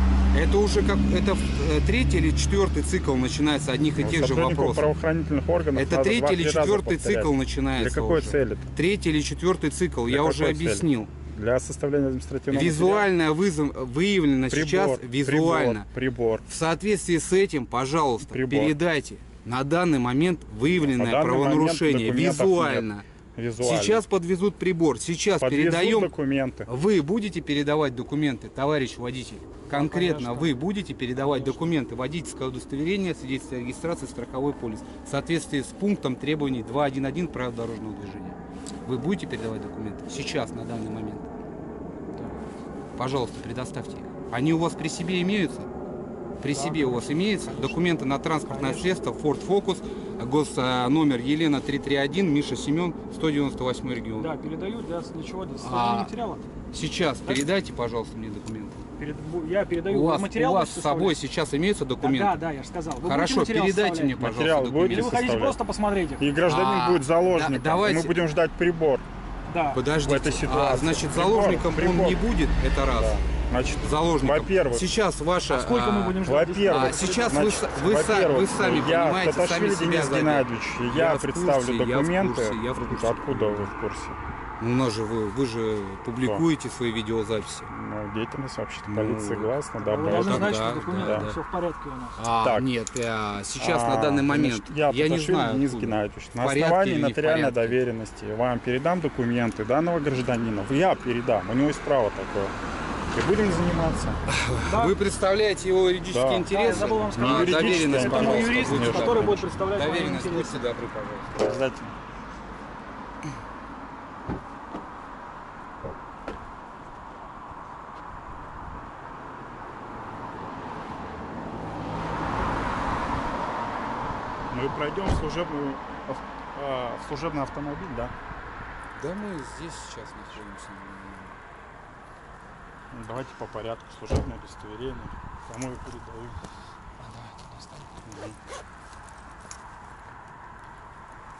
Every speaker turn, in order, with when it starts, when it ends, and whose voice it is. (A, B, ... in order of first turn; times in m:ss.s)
0:00.3-0:04.9 A
0:04.0-0:08.6 B
0:05.7-0:11.1 A
0:10.1-0:13.1 B
0:12.5-0:15.9 A
0:14.5-0:16.5 B
0:16.5-0:23.0 A
0:18.2-0:18.8 B
0:20.7-0:24.0 B
0:23.6-0:26.1 A
0:25.4-0:26.7 B
0:26.7-0:41.3 A
0:29.7-0:30.6 C
0:31.1-0:31.7 C
0:42.1-0:42.5 C
0:43.0-0:45.7 A
0:46.4-0:54.4 A
0:46.5-0:49.0 C
0:54.2-0:56.5 C
0:55.6-0:56.1 A
0:56.7-0:58.8 A
0:59.0-1:01.2 C
0:59.8-1:02.4 A
1:02.0-1:04.2 C
1:03.0-1:05.2 A
1:04.2-1:05.6 B
1:04.8-1:06.3 C
1:06.2-1:09.0 B
1:06.4-1:08.2 A
1:09.5-1:09.8 C
1:09.7-1:13.2 A
1:10.0-1:12.2 B
1:12.9-1:14.9 B
1:13.8-1:23.7 A
1:15.5-1:17.4 C
1:16.2-1:24.2 B
1:24.6-1:27.7 A
1:27.7-1:31.3 B
1:28.8-1:31.4 A
1:29.8-1:32.2 C
1:32.2-1:37.8 A
1:32.4-1:32.7 B
1:33.6-1:42.6 B
1:43.1-1:44.2 B
1:44.3-1:51.4 A
1:44.6-1:45.0 C
1:46.1-1:46.5 B
1:46.5-1:50.7 C
1:47.1-1:49.5 B
1:51.4-1:51.9 B
2:04.5-2:08.1 B
2:08.9-2:11.4 A
2:12.9-2:16.4 B
2:17.0-2:17.9 C
2:18.0-2:18.4 B